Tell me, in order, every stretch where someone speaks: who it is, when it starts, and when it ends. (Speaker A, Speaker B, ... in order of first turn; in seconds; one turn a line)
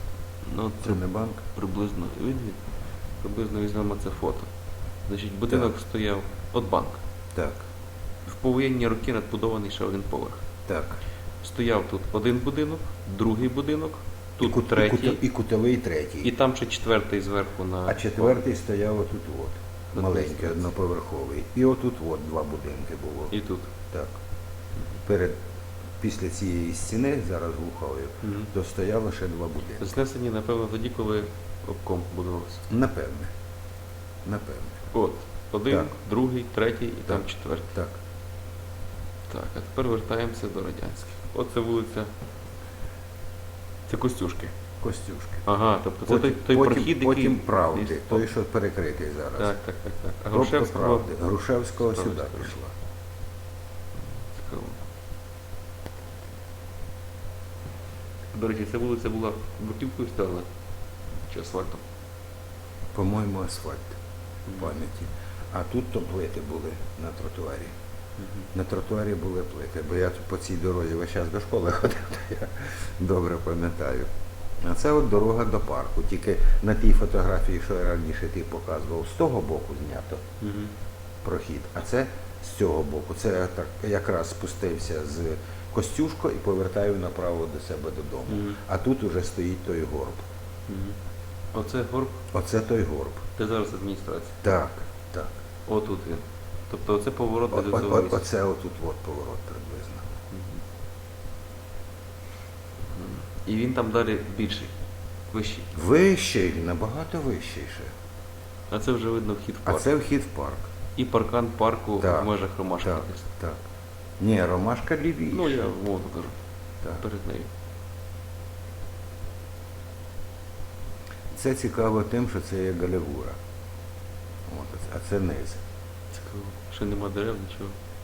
Speaker A: 0.4-2.6
Speaker B: 0.8-1.4
Speaker A: 3.2-4.5
Speaker A: 5.0-7.0
Speaker B: 7.3-7.6
Speaker A: 8.2-10.4
Speaker B: 10.7-11.0
Speaker A: 11.4-15.2
Speaker B: 14.4-16.3
Speaker A: 16.2-18.4
Speaker B: 17.9-23.3
Speaker A: 19.9-20.7
Speaker A: 23.3-23.7
Speaker B: 25.1-25.4
Speaker B: 26.0-29.9
Speaker A: 28.2-28.5
Speaker A: 29.8-32.6
Speaker B: 32.7-33.3
Speaker B: 34.2-34.9
Speaker A: 34.9-37.7
Speaker B: 37.1-37.9
Speaker A: 39.3-42.1
Speaker A: 43.9-44.5
Speaker B: 44.8-45.4
Speaker A: 45.4-48.2
Speaker B: 46.0-49.5
Speaker A: 49.4-51.1
Speaker B: 50.3-52.7
Speaker A: 51.8-52.5
Speaker A: 54.2-54.8
Speaker A: 58.3-60.5
Speaker A: 61.3-61.8
Speaker B: 62.9-64.0
Speaker A: 64.5-64.7
Speaker B: 64.5-67.7
Speaker A: 68.2-68.5
Speaker B: 68.5-74.1
Speaker B: 74.6-80.2
Speaker A: 80.4-80.7
Speaker B: 81.2-90.2
Speaker A: 88.3-88.6
Speaker A: 90.7-91.0
Speaker A: 91.5-92.2
Speaker B: 92.3-93.2
Speaker A: 93.4-94.4
Speaker B: 94.4-95.3
Speaker A: 95.7-98.2
Speaker B: 97.5-100.1
Speaker A: 100.3-100.6
Speaker A: 102.8-104.7
Speaker A: 105.3-105.7
Speaker B: 105.7-107.9
Speaker A: 108.7-109.9
Speaker B: 109.6-110.6
Speaker A: 111.0-113.2
Speaker B: 112.0-113.6
Speaker B: 114.2-115.7
Speaker A: 115.3-116.3
Speaker A: 117.0-117.5
Speaker B: 121.3-123.4
Speaker B: 124.5-125.6
Speaker A: 126.1-127.7